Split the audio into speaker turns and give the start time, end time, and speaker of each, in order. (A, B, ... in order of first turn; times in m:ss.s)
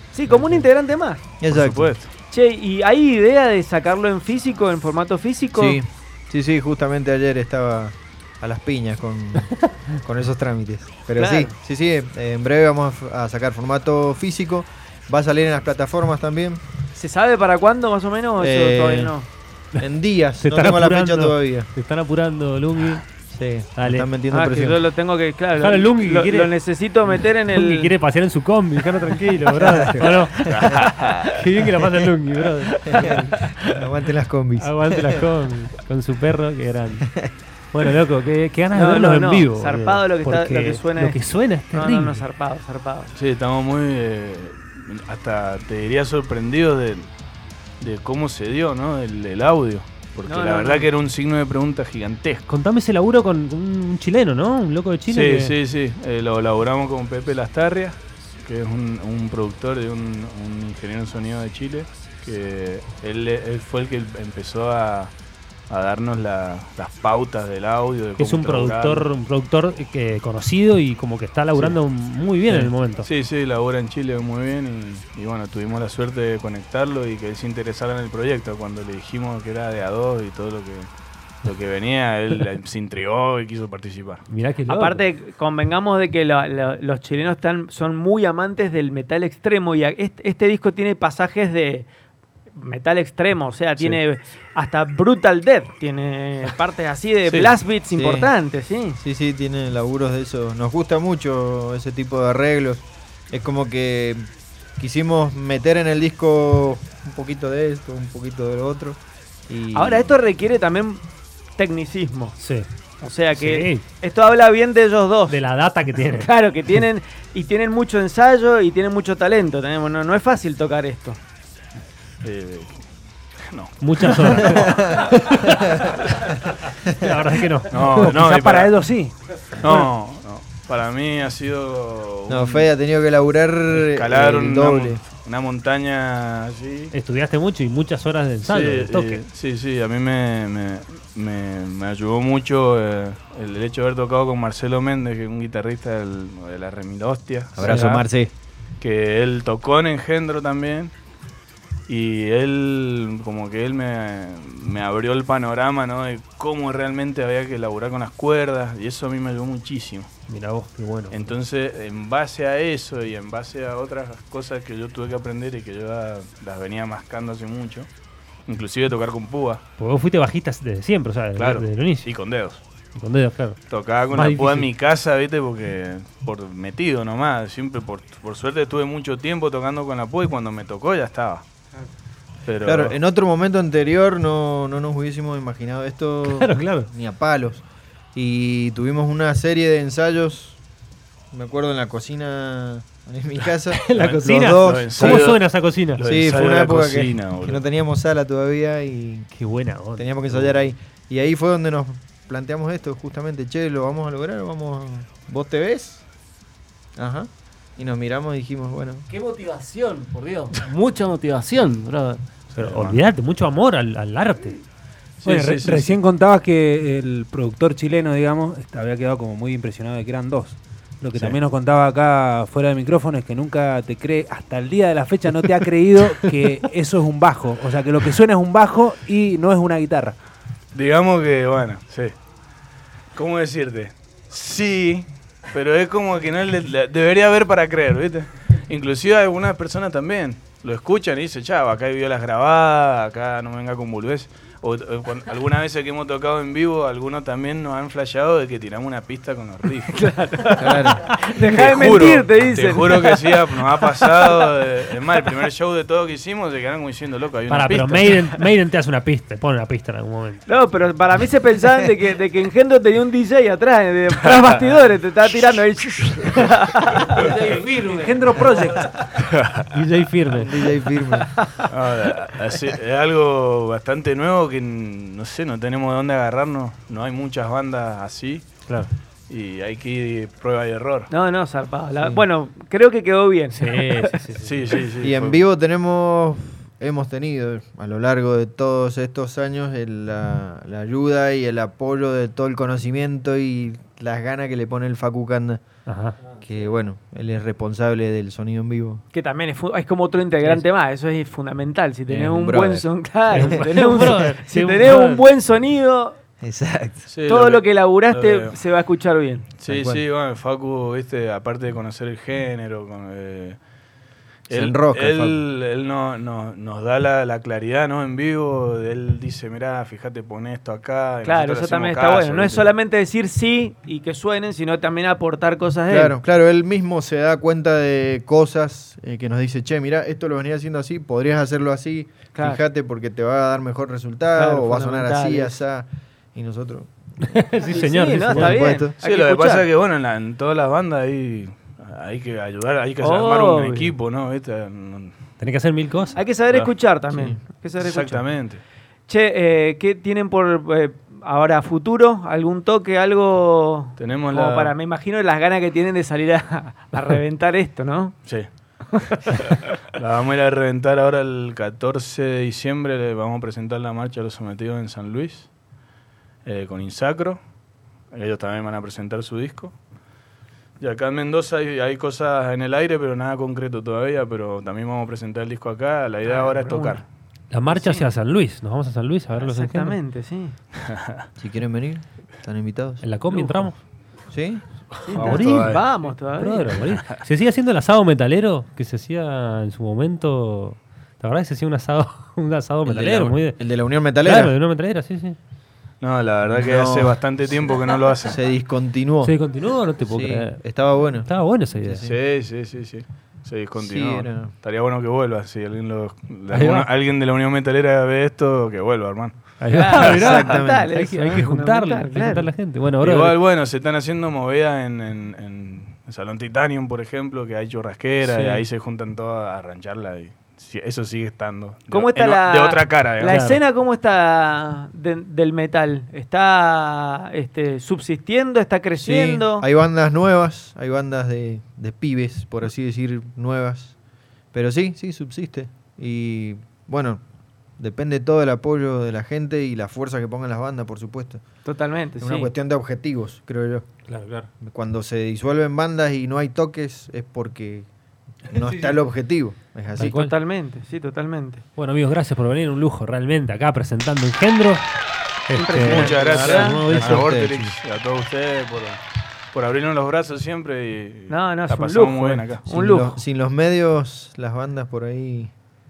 0:00.1-0:01.3 A
0:00.3-0:00.6 B
0:01.4-0:02.0 C
0:01.5-0:02.1 D
0:02.3-0:05.8 A
0:05.5-0:16.6 C
0:11.2-0:11.5 A
0:16.9-0:19.3 A
0:18.4-0:19.2 C
0:19.8-0:21.7 C
0:20.4-0:23.0 B
0:23.3-0:24.8 C
0:23.8-0:24.1 B
0:24.3-0:27.9 A
0:25.6-0:26.5 B
0:27.5-0:30.4 B
0:29.0-0:29.9 A
0:29.6-0:30.1 C
0:30.4-0:30.8 A
0:30.5-0:31.2 D
0:31.3-0:33.3 B
0:32.9-0:33.2 A
0:32.9-0:35.2 C
0:34.6-0:37.1 B
0:37.7-0:42.2 B
0:38.7-0:41.2 A
0:41.7-0:43.1 A
0:43.1-0:47.1 D
0:47.8-0:52.5 D
0:50.2-0:50.9 A
0:52.5-0:55.5 B
0:55.1-1:05.1 D
1:05.7-1:09.1 D
1:08.2-1:13.1 B
1:12.5-1:20.9 D
1:21.4-1:24.2 D
1:24.3-1:25.0 B
1:24.7-1:31.9 A
1:32.6-1:39.0 A
1:37.3-1:37.6 D
1:37.9-1:38.3 C
1:39.0-1:50.1 C
1:49.7-1:51.0 A
1:51.6-1:52.4 A
1:52.4-1:52.7 B
1:53.0-1:55.4 A
1:53.3-1:53.8 B
1:55.3-1:56.3 B
1:56.1-2:01.2 A
2:02.2-2:02.8 D
2:03.5-2:05.0 D
2:03.8-2:04.7 B
2:04.5-2:05.9 C
2:06.8-2:08.2 B
2:07.7-2:08.7 D
2:08.0-2:09.1 E
2:09.6-2:12.7 D
2:12.3-2:15.0 C
2:13.7-2:16.9 D
2:16.9-2:19.2 B
2:18.4-2:28.0 D
2:27.6-2:28.3 C
2:27.6-2:27.9 B
2:28.8-2:30.9 D
2:31.9-2:40.1 D
2:40.3-2:41.3 B
2:41.1-2:47.9 D
2:48.5-2:49.6 D
2:49.8-2:52.1 B
2:51.4-2:52.6 D
2:52.9-2:53.6 B
2:53.7-3:01.4 D
2:54.1-2:54.7 B
3:02.4-3:03.0 D
3:02.6-3:07.6 C
3:06.3-3:06.9 B
3:08.1-3:10.6 C
3:11.3-3:15.3 C
3:13.7-3:16.0 B
3:14.0-3:15.4 D
3:15.9-3:17.6 D
3:16.0-3:19.3 C
3:19.3-3:20.5 B
3:19.9-3:26.0 C
3:27.0-3:29.0 C
3:29.1-3:32.2 F
3:32.5-3:34.6 B
3:32.6-3:33.0 D
3:35.2-3:36.0 D
3:35.3-3:50.2 E
3:35.3-3:35.9 B
3:50.7-3:52.1 D
3:53.2-4:10.0 D
4:09.9-4:14.4 A
4:10.6-4:11.0 C
4:11.4-4:18.2 D
4:17.5-4:20.4 B
4:20.5-4:27.2 A
4:27.3-4:28.6 F
4:27.9-4:28.3 A
4:28.1-4:28.9 E
4:29.2-4:29.6 D
4:29.7-4:30.5 B
4:30.3-4:31.3 C
4:31.2-4:31.6 A
4:31.7-4:38.4 D
4:39.3-4:41.1 D
4:41.1-4:44.2 A
4:43.5-4:44.6 B
4:44.4-4:45.4 D
4:45.0-4:55.6 C
4:55.8-4:56.2 B
4:56.3-4:59.0 C
4:59.1-5:06.2 A
5:02.1-5:03.6 C
5:03.3-5:05.2 B
5:06.4-5:07.1 C
5:07.1-5:08.6 D
5:07.3-5:09.5 A
5:09.6-5:13.6 D
5:09.7-5:10.0 C
5:14.5-5:22.7 D
5:14.5-5:15.4 C
5:21.2-5:26.2 A
5:25.9-5:36.9 C
5:32.3-5:32.6 A
5:34.4-5:35.6 A
5:37.2-5:38.8 B
5:37.6-5:39.7 A
5:38.1-5:38.9 C
5:39.0-5:45.1 D
5:43.0-5:43.9 A
5:45.4-5:46.2 B
5:46.1-5:48.2 A
5:47.1-5:47.4 C
5:47.8-5:48.6 D
5:49.1-5:58.2 A
5:54.0-5:54.8 D
5:59.1-6:05.5 D
6:06.4-6:07.4 D
6:08.1-6:09.7 D
6:10.8-6:17.0 D
6:16.2-6:17.0 A
6:17.5-6:20.0 B
6:17.7-6:18.1 A
6:19.4-6:20.5 A
6:20.9-6:21.2 D
6:21.4-6:23.0 C
6:23.0-6:23.8 B
6:23.3-6:23.7 A
6:24.3-6:24.6 C
6:25.0-6:33.6 B
6:25.1-6:26.8 A
6:25.1-6:25.9 D
6:26.9-6:27.2 D
6:32.8-6:34.5 C
6:34.2-6:35.4 B
6:36.0-6:38.4 D
6:36.5-6:39.4 C
6:39.2-6:40.6 B
6:40.0-6:42.1 C
6:41.2-6:42.1 B
6:42.0-6:49.4 D
6:43.8-6:44.5 C
6:46.5-6:46.9 B
6:49.6-6:53.4 B
6:49.7-6:52.5 A
6:50.0-6:50.9 C
6:52.9-7:03.4 D
7:01.9-7:09.6 A
7:03.3-7:03.6 B
7:09.0-7:13.9 C
7:14.5-7:17.2 C
7:17.8-7:21.4 C
7:21.6-7:22.5 A
7:22.2-7:23.8 C
7:24.1-7:24.5 B
7:24.6-7:27.9 C
7:28.4-7:30.1 C
7:28.5-7:29.0 B
7:30.0-7:30.3 B
7:30.1-7:31.6 A
7:31.8-7:34.9 B
7:35.5-7:37.7 B
7:35.5-7:36.8 A
7:35.8-7:39.0 D
7:35.8-7:37.7 C
7:39.5-7:42.7 D
7:41.3-7:43.2 A
7:42.7-7:45.5 C